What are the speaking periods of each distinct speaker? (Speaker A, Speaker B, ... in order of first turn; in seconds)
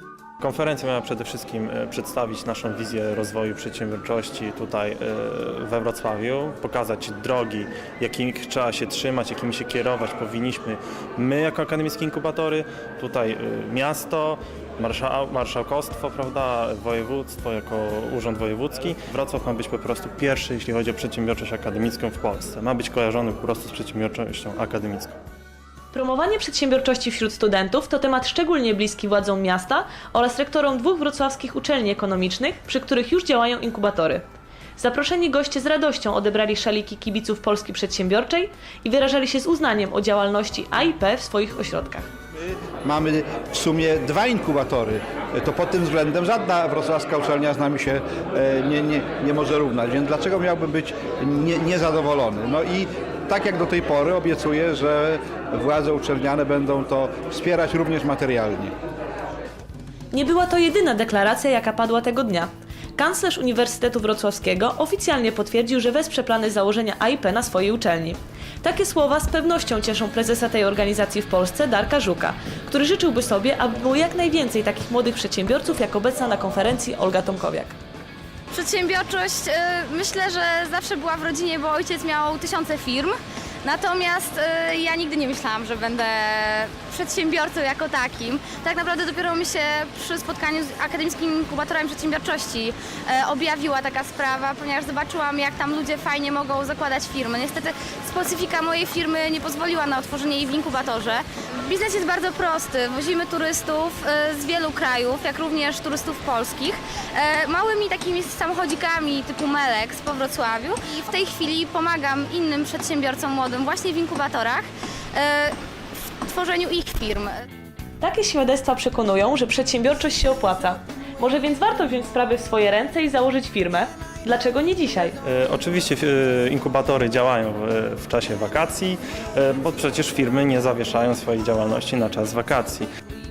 Speaker A: 0.4-25.1, 125.2-132.9
Speaker B: 25.9-34.2, 34.8-42.0, 60.1-77.7, 118.0-125.2
Speaker C: 42.8-58.7
Speaker D: 78.5-115.5, 116.2-117.3